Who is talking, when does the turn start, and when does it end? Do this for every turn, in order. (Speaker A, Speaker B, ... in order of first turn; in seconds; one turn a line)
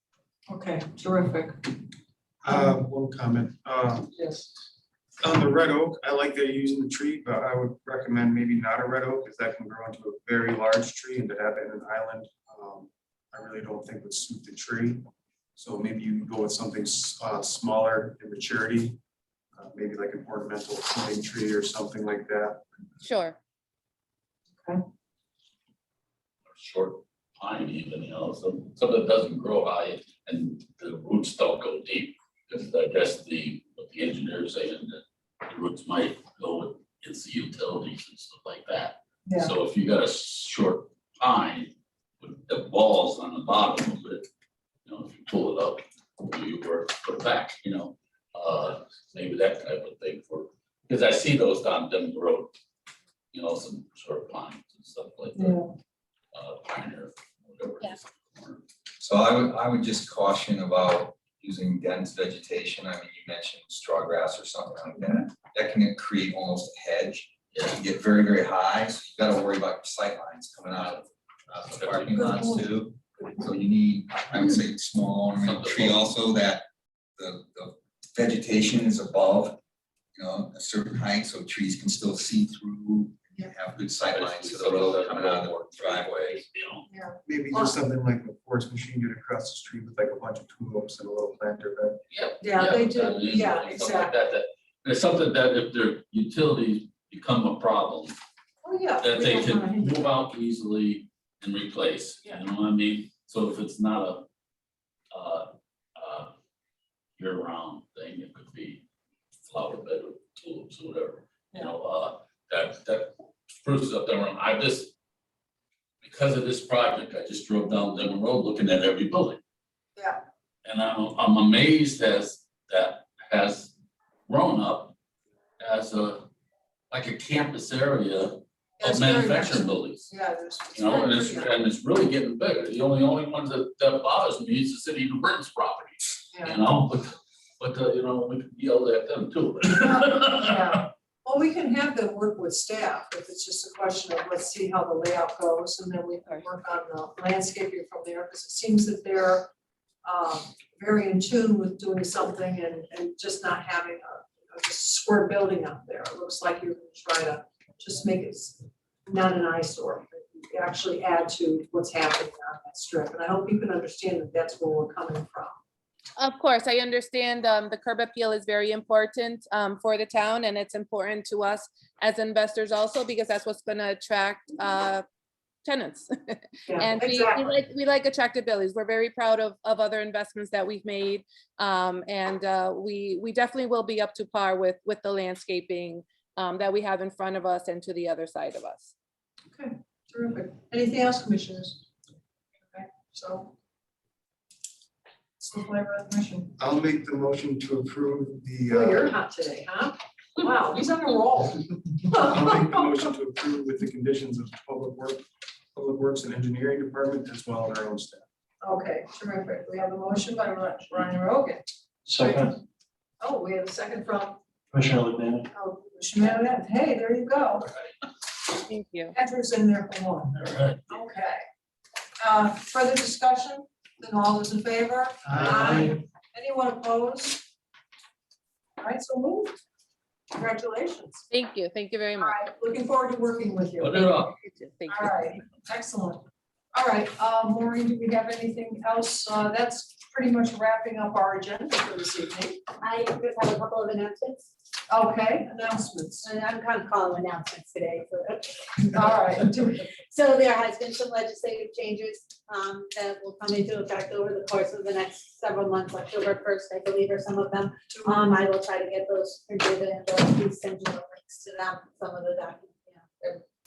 Speaker A: 0.5-1.8
Speaker B: 2.4-4.1
Speaker A: 4.2-4.5
Speaker B: 5.2-19.0
Speaker B: 19.6-22.6
Speaker C: 23.0-23.4
Speaker D: 26.5-44.3
Speaker A: 39.3-39.5
Speaker D: 44.9-52.5
Speaker D: 53.3-55.6
Speaker A: 55.4-55.7
Speaker D: 56.3-58.6
Speaker E: 59.0-79.6
Speaker D: 67.5-67.8
Speaker D: 70.8-71.0
Speaker D: 71.7-72.3
Speaker D: 75.4-76.1
Speaker E: 80.2-86.4
Speaker D: 84.1-86.8
Speaker A: 86.9-87.8
Speaker B: 87.3-92.0
Speaker D: 92.1-98.2
Speaker A: 92.4-94.2
Speaker A: 98.6-100.0
Speaker D: 99.0-104.2
Speaker D: 105.1-106.3
Speaker D: 107.2-108.8
Speaker D: 109.5-114.9
Speaker D: 116.0-119.4
Speaker D: 120.7-123.7
Speaker D: 124.3-125.0
Speaker D: 125.6-126.3
Speaker D: 126.9-130.1
Speaker A: 128.8-131.6
Speaker D: 130.7-140.7
Speaker A: 136.3-136.7
Speaker A: 139.8-149.5
Speaker A: 150.0-165.6
Speaker C: 166.2-175.1
Speaker C: 175.6-188.9
Speaker A: 176.7-177.6
Speaker A: 189.5-191.8
Speaker A: 192.7-193.5
Speaker A: 195.4-196.5
Speaker B: 196.6-199.1
Speaker A: 198.7-203.1
Speaker B: 202.2-208.2
Speaker A: 208.6-211.7
Speaker F: 212.1-212.6
Speaker A: 212.2-212.5
Speaker A: 213.2-214.4
Speaker F: 214.7-215.5
Speaker A: 215.5-217.7
Speaker C: 218.5-219.2
Speaker A: 219.1-221.4
Speaker D: 220.3-220.8
Speaker A: 222.2-227.5
Speaker F: 225.3-226.0
Speaker A: 228.8-229.6
Speaker A: 230.3-231.3
Speaker C: 231.3-232.4
Speaker A: 232.2-234.2
Speaker D: 233.8-234.3
Speaker C: 234.2-235.3
Speaker A: 234.9-236.2
Speaker A: 236.7-242.6
Speaker G: 242.8-244.5
Speaker A: 244.9-246.3
Speaker G: 246.2-249.1
Speaker A: 248.8-249.9
Speaker G: 250.0-263.4
Speaker A: 257.9-258.2